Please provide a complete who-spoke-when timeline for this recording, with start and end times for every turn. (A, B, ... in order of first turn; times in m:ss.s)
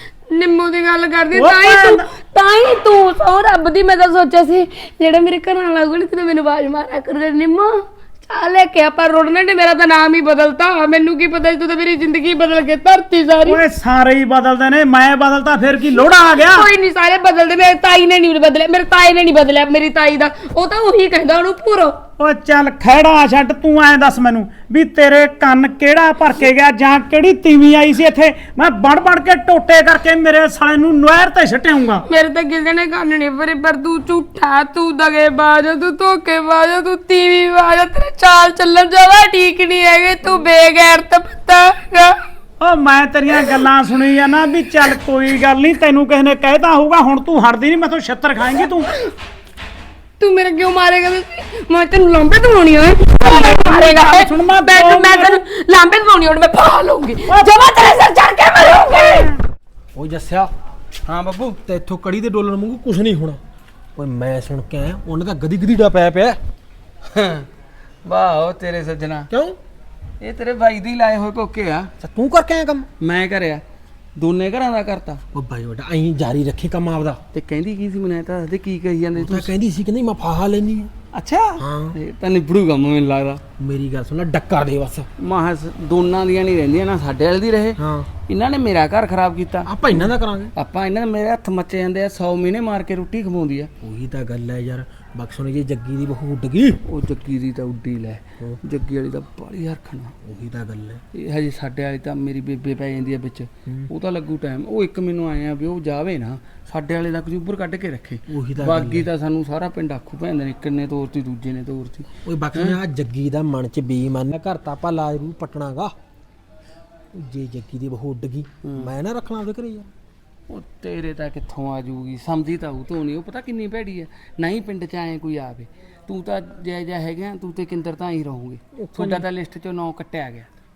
0:00.3-0:13.6 A
0:01.3-0:02.1 B
0:13.4-0:16.7 B
0:16.4-0:22.0 A
0:22.2-0:32.0 B
0:32.0-0:42.2 A
0:42.6-0:48.9 B
0:50.2-0:59.3 A
0:53.2-0:55.4 B
0:58.8-0:59.4 B
0:59.9-1:00.5 C
1:01.1-1:01.6 D
1:01.6-1:03.4 C
1:04.0-1:06.4 C
1:07.0-1:07.5 D
1:08.0-1:09.3 D
1:09.3-1:09.6 C
1:10.2-1:11.9 D
1:12.0-1:12.9 C
1:13.0-1:13.6 D
1:14.2-1:15.2 D
1:15.3-1:17.2 C
1:17.3-1:19.5 D
1:19.1-1:20.9 C
1:21.1-1:23.4 D
1:21.6-1:22.0 C
1:23.6-1:25.1 C
1:25.2-1:33.7 D
1:27.8-1:28.1 C
1:29.6-1:30.5 C
1:33.8-1:36.8 C
1:36.9-1:40.1 D
1:40.2-1:41.0 C
1:41.1-1:52.8 D
1:48.3-1:49.1 C
1:52.2-1:55.9 C
1:57.1-1:59.9 C
1:58.6-1:58.9 D
2:00.5-2:10.5 D
2:08.8-2:09.2 C